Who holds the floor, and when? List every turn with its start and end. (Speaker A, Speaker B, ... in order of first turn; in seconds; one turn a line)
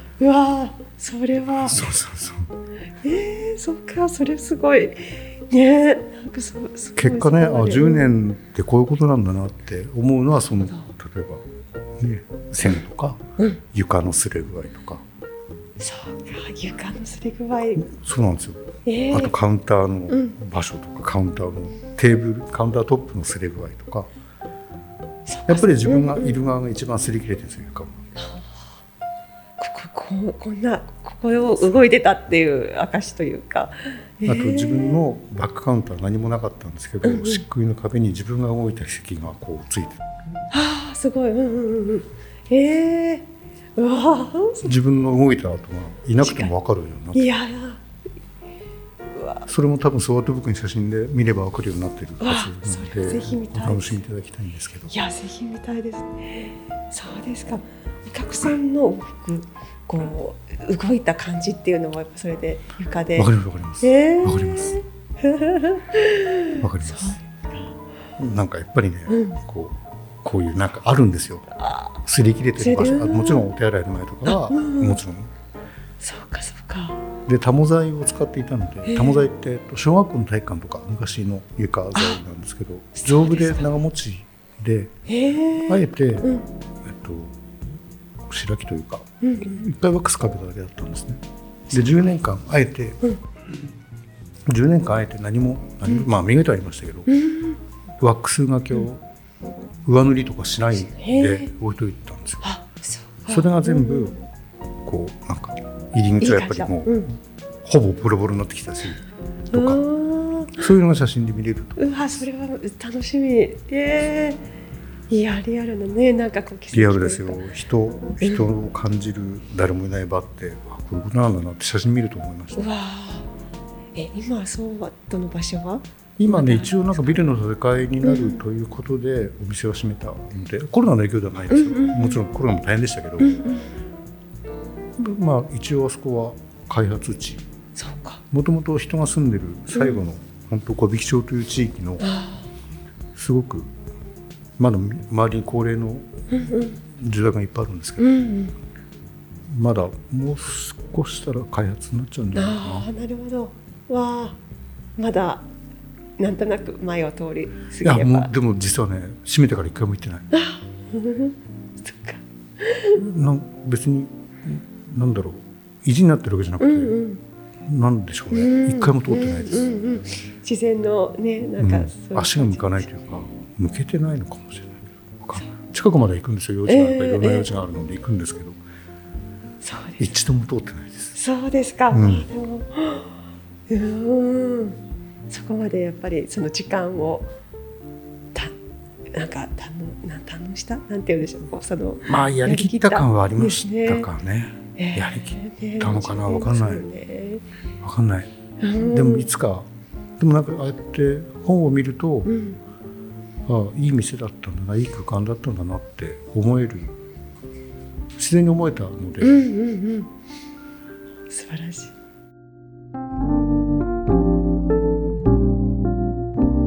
Speaker A: 0.2-1.9
Speaker B: 1.5-2.5
Speaker A: 3.0-8.1
Speaker B: 7.0-11.4
Speaker B: 12.0-13.2
Speaker B: 13.7-15.0
Speaker A: 15.8-17.9
Speaker B: 17.8-24.1
Speaker A: 18.9-19.4
Speaker A: 25.3-26.4
Speaker B: 25.5-27.9
Speaker A: 28.2-28.5
Speaker A: 29.6-35.0
Speaker B: 34.2-40.0
Speaker A: 37.0-37.4
Speaker A: 40.5-44.7
Speaker B: 44.6-47.3
Speaker A: 46.2-46.5
Speaker A: 47.1-47.8
Speaker A: 49.1-49.4
Speaker B: 49.5-54.9
Speaker A: 52.2-54.0
Speaker A: 54.9-63.3
Speaker B: 63.1-64.8
Speaker A: 63.8-67.2
Speaker B: 66.6-67.2
Speaker B: 68.2-75.3
Speaker A: 69.1-69.4
Speaker A: 72.6-73.5
Speaker A: 74.3-75.0
Speaker A: 76.0-77.0
Speaker B: 77.3-84.9
Speaker A: 78.9-79.3
Speaker A: 83.0-83.7
Speaker A: 85.1-86.5
Speaker B: 85.7-86.3
Speaker B: 86.8-87.4
Speaker B: 88.3-91.2
Speaker A: 89.2-89.7
Speaker B: 91.7-93.0
Speaker B: 94.5-97.1
Speaker A: 97.1-97.6
Speaker B: 98.0-99.0
Speaker B: 99.8-102.5
Speaker A: 100.8-101.5
Speaker A: 102.4-104.2
Speaker B: 103.3-104.2
Speaker B: 104.8-107.1
Speaker A: 106.2-107.1
Speaker B: 107.6-109.8
Speaker A: 109.5-110.7
Speaker B: 110.5-112.2
Speaker A: 111.8-114.5
Speaker A: 115.1-117.4
Speaker B: 116.7-122.7
Speaker A: 118.2-118.5
Speaker A: 122.6-123.3
Speaker A: 124.0-127.3
Speaker B: 126.2-133.4
Speaker A: 128.0-128.4
Speaker A: 131.5-132.2
Speaker A: 133.2-133.6
Speaker B: 135.0-137.4
Speaker A: 137.8-138.2
Speaker B: 138.3-142.1
Speaker A: 142.0-142.5
Speaker B: 143.2-143.7
Speaker B: 144.6-146.1
Speaker A: 146.3-146.8
Speaker B: 146.6-148.2
Speaker A: 148.0-148.6
Speaker B: 149.5-152.9
Speaker A: 152.3-154.4
Speaker A: 155.0-155.5
Speaker A: 156.2-158.3
Speaker B: 157.8-160.3
Speaker A: 160.3-163.0
Speaker B: 162.9-167.0
Speaker A: 166.6-167.2
Speaker B: 167.7-169.7
Speaker A: 168.3-172.9
Speaker B: 171.6-178.6
Speaker A: 176.7-177.5
Speaker A: 179.6-180.1
Speaker B: 180.0-181.2
Speaker A: 181.1-183.2
Speaker B: 181.9-182.3
Speaker A: 183.7-187.3
Speaker A: 189.1-194.1
Speaker B: 192.1-196.8
Speaker A: 194.8-197.4
Speaker B: 197.8-198.3
Speaker A: 198.6-199.3
Speaker B: 198.8-199.7
Speaker B: 200.2-202.3
Speaker A: 202.3-202.6
Speaker B: 203.4-206.9
Speaker B: 208.2-209.4
Speaker A: 209.2-210.1
Speaker A: 211.3-211.9